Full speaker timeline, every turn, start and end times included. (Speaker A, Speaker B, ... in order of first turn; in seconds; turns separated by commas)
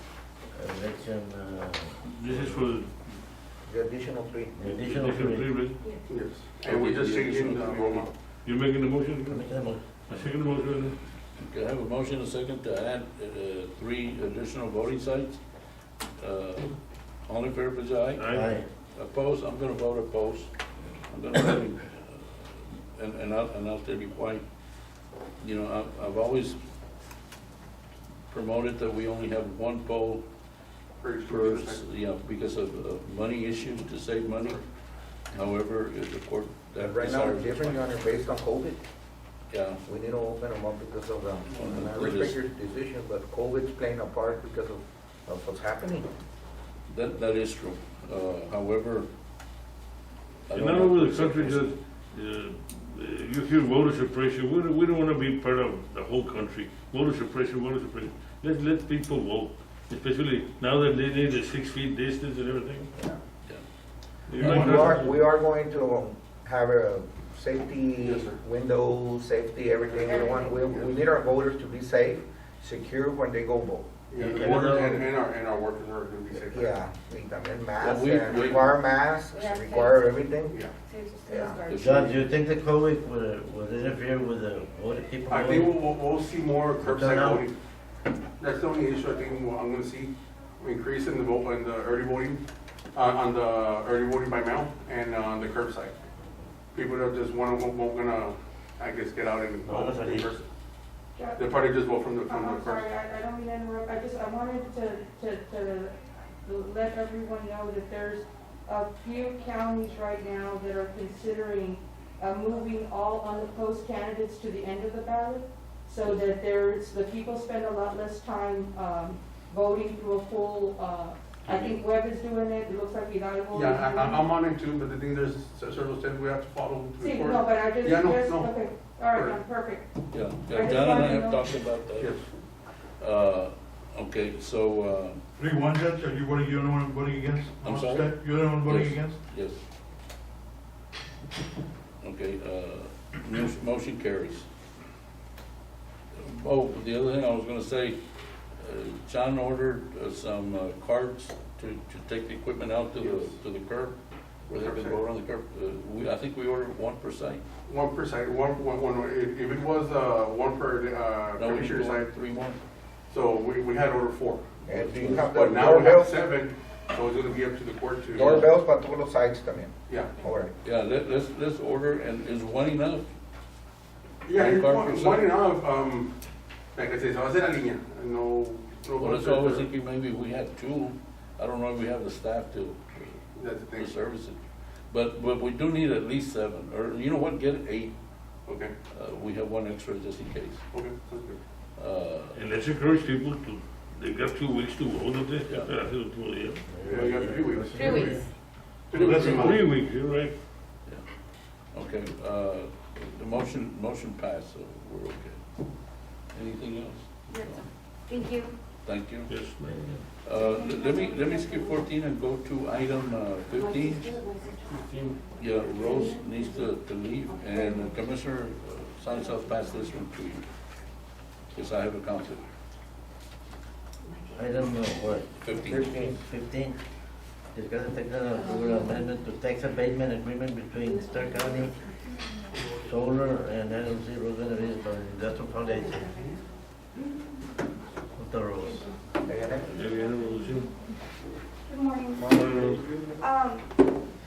Speaker A: 0.5-2.6, Speaker B: 2.0-3.1, Speaker C: 3.6-4.5, Speaker A: 4.5-5.5, Speaker B: 4.6-5.9, Speaker D: 6.1-8.1, Speaker E: 6.6-8.1, Speaker B: 8.4-11.0, Speaker A: 9.3-10.3, Speaker E: 11.4-15.4, Speaker E: 16.2-16.7, Speaker E: 17.3-18.3, Speaker B: 18.1-18.6, Speaker A: 18.3-18.7, Speaker E: 18.9-20.5, Speaker E: 21.1-24.4, Speaker E: 25.4-26.6, Speaker E: 28.3-30.2, Speaker D: 31.0-31.8, Speaker E: 31.2-34.6, Speaker E: 35.3-37.9, Speaker C: 36.8-38.8, Speaker E: 39.5-39.8, Speaker C: 39.9-46.1, Speaker E: 41.5-42.4, Speaker E: 46.9-49.1, Speaker E: 50.5-51.7, Speaker B: 50.5-62.9, Speaker B: 64.3-65.2, Speaker C: 64.4-73.9, Speaker F: 64.5-64.8, Speaker D: 68.0-68.4, Speaker D: 69.8-71.0, Speaker G: 70.0-70.7, Speaker D: 74.1-76.8, Speaker A: 74.2-75.0, Speaker C: 76.3-80.6, Speaker E: 77.8-78.7, Speaker D: 78.2-78.6, Speaker G: 79.3-80.1, Speaker G: 80.8-82.2, Speaker C: 81.3-81.6, Speaker E: 81.7-82.1, Speaker A: 81.7-85.7, Speaker D: 85.3-87.5, Speaker A: 86.8-87.4, Speaker D: 88.4-92.4, Speaker D: 92.9-96.0, Speaker D: 96.7-100.4, Speaker A: 99.6-100.3, Speaker G: 101.1-101.6, Speaker D: 101.3-102.8, Speaker G: 102.2-124.3, Speaker E: 121.5-121.8, Speaker D: 123.5-129.4, Speaker G: 127.0-130.0, Speaker E: 130.1-132.2, Speaker G: 130.5-131.4, Speaker D: 132.0-132.2, Speaker E: 133.0-135.2, Speaker F: 135.4-139.2, Speaker E: 137.6-139.6, Speaker E: 142.0-144.5, Speaker E: 146.2-148.0, Speaker E: 148.6-153.9, Speaker D: 153.0-153.3, Speaker E: 154.5-157.4, Speaker D: 154.5-155.0, Speaker D: 157.7-162.1, Speaker E: 161.3-162.6, Speaker D: 163.1-168.5, Speaker E: 164.7-165.2, Speaker C: 164.7-166.2, Speaker C: 168.1-170.5, Speaker E: 168.2-168.5, Speaker D: 169.9-170.2, Speaker E: 170.6-173.1, Speaker D: 174.2-176.1, Speaker E: 174.3-175.3, Speaker D: 176.7-179.7, Speaker E: 179.0-183.2, Speaker D: 183.3-183.9, Speaker E: 183.7-184.4, Speaker E: 184.9-187.9, Speaker D: 188.5-188.7, Speaker E: 188.9-190.6, Speaker D: 190.7-191.4, Speaker E: 191.8-192.5, Speaker B: 192.3-196.6, Speaker E: 195.4-195.8, Speaker A: 196.7-198.3, Speaker D: 196.8-198.2, Speaker G: 197.7-198.2, Speaker D: 198.9-199.7, Speaker F: 198.9-199.4, Speaker B: 198.9-200.3, Speaker E: 201.7-205.4, Speaker E: 206.3-207.6, Speaker G: 207.3-208.5, Speaker E: 208.8-209.4, Speaker B: 209.3-209.8, Speaker A: 209.6-210.0, Speaker E: 210.2-214.2, Speaker G: 210.3-211.8, Speaker G: 213.5-214.8, Speaker B: 214.6-215.2, Speaker E: 215.3-220.4, Speaker G: 215.5-216.7, Speaker G: 217.3-218.0, Speaker G: 219.1-219.6, Speaker E: 221.5-222.4, Speaker G: 224.1-224.5, Speaker A: 224.3-226.8, Speaker E: 225.4-225.9, Speaker C: 225.6-226.2, Speaker A: 227.5-231.8, Speaker G: 228.3-229.0, Speaker G: 230.9-231.9, Speaker A: 232.8-236.1, Speaker G: 235.9-236.4, Speaker A: 238.2-238.9, Speaker C: 239.2-239.7, Speaker B: 239.7-240.7, Speaker G: 241.7-242.4, Speaker B: 242.3-243.1, Speaker C: 242.3-242.8, Speaker G: 243.2-244.0